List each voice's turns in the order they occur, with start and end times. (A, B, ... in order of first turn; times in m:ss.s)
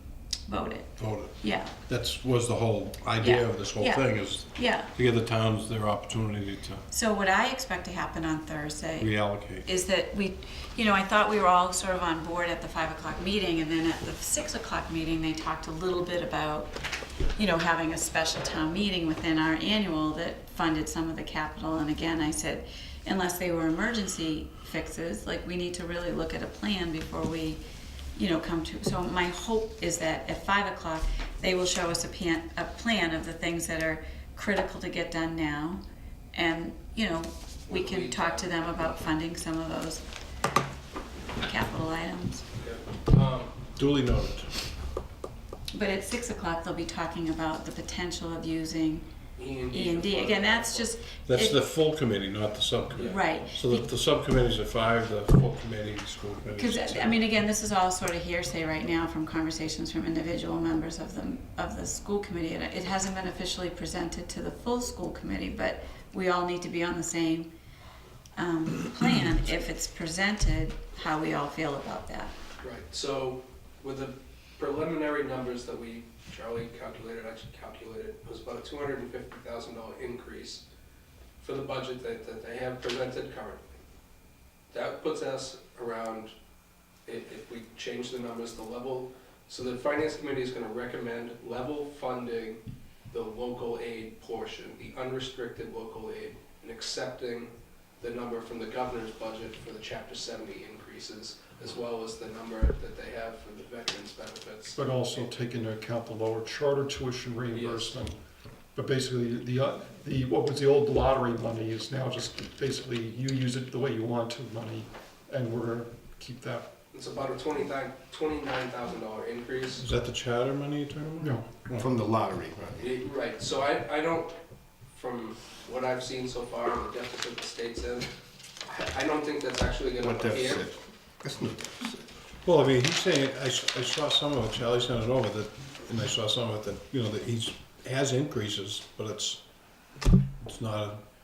0:00.5-0:01.7 A
0:01.0-0:01.3 B
0:01.9-0:06.8 B
0:03.2-0:04.9 A
0:06.9-0:16.7 A
0:09.0-0:09.7 B
0:17.4-0:27.6 A
0:28.2-0:35.8 A
0:36.3-0:40.0 A
0:37.7-0:38.8 C
0:41.4-0:42.5 A
0:42.6-0:43.6 C
0:43.8-0:44.5 B
0:45.7-0:49.1 A
0:49.4-0:50.9 C
0:49.7-0:51.6 A
0:51.3-0:57.2 B
0:53.0-0:53.9 A
0:56.6-1:07.5 A
1:08.4-1:12.3 A
1:12.6-1:20.6 C
1:21.4-1:23.6 C
1:24.7-1:26.3 C
1:27.1-1:32.6 C
1:33.1-1:45.3 C
1:44.8-1:48.2 D
1:47.5-1:48.0 C
1:48.8-1:56.7 D
1:56.9-1:59.8 C
1:59.8-2:01.9 B
2:01.2-2:01.5 D
2:01.8-2:02.9 E
2:02.8-2:04.4 C
2:04.9-2:08.1 C
2:08.7-2:10.7 C
2:10.0-2:12.0 E
2:12.4-2:19.4 B
2:20.4-2:21.0 B